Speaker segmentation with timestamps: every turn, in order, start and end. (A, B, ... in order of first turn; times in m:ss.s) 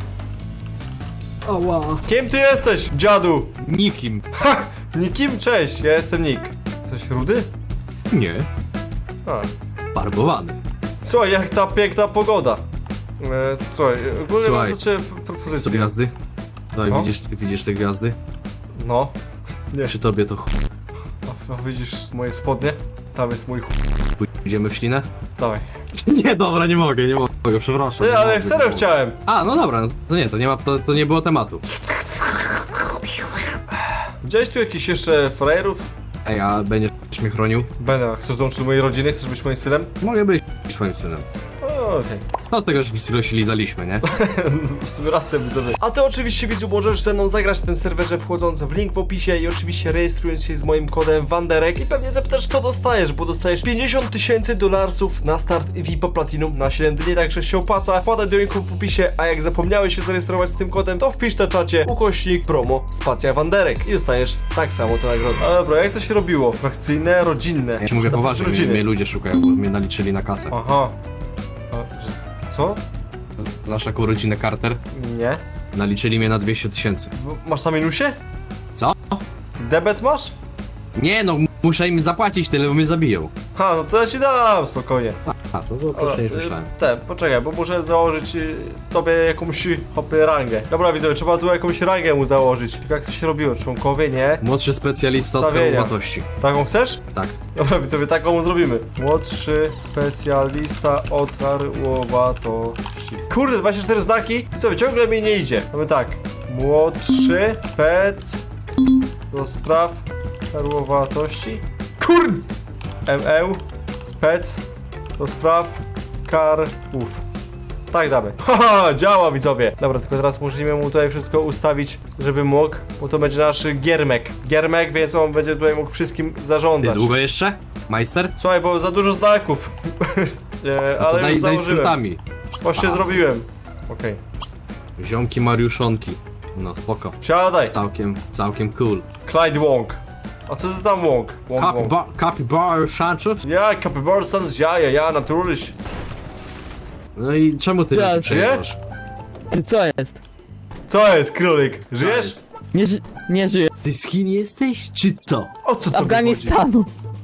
0:01.5-0:02.0 A
0:02.1-0:03.5 B
0:03.6-0:04.2 A
0:04.4-0:07.5 B
0:08.1-0:08.5 A
0:09.9-0:10.6 A
0:11.0-0:12.6 B
0:13.2-0:15.9 B
0:14.4-0:14.8 A
0:15.6-0:16.1 A
0:16.7-0:18.2 A
0:16.8-0:17.1 B
0:18.8-0:19.1 B
0:19.8-0:20.5 A
0:21.2-0:23.9 B
0:24.2-0:25.1 A
0:25.4-0:25.6 B
0:26.0-0:31.6 A
0:28.0-0:29.2 B
0:34.2-0:35.8 B
0:36.2-0:37.7 A
0:37.8-0:39.9 B
0:40.0-0:41.2 A
0:41.6-0:42.2 B
0:42.4-0:44.0 A
0:44.0-1:08.8 B
1:07.8-1:10.5 A
1:10.5-1:10.9 B
1:11.7-1:12.8 B
1:13.4-1:14.8 A
1:14.9-1:15.4 B
1:15.7-1:17.1 A
1:17.1-1:18.2 B
1:18.8-1:19.2 A
1:19.6-1:20.3 B
1:21.0-1:23.3 A
1:23.6-1:25.2 B
1:25.3-1:26.7 A
1:25.9-1:34.4 B
1:34.4-1:36.3 A
1:35.4-1:37.0 B
1:37.6-1:48.4 B
1:49.3-1:52.5 B
1:53.0-1:54.6 B
1:55.2-1:57.2 B
1:57.9-2:07.1 B
2:06.8-2:08.4 A
2:08.4-2:12.0 B
2:11.0-2:12.2 A
2:12.6-2:14.2 B
2:12.8-2:13.2 A
2:15.0-2:17.2 A
2:17.2-2:17.8 B
2:17.7-2:19.1 A
2:19.2-2:21.9 B
2:21.6-2:23.4 A
2:23.4-2:25.7 B
2:27.2-2:28.8 A
2:27.9-2:28.3 C
2:28.2-2:28.6 B
2:29.5-2:30.2 C
2:30.9-2:32.4 B
2:32.0-2:32.4 A
2:32.7-2:33.7 C
2:33.8-2:35.5 A
2:35.6-2:36.6 B
2:35.9-2:36.9 C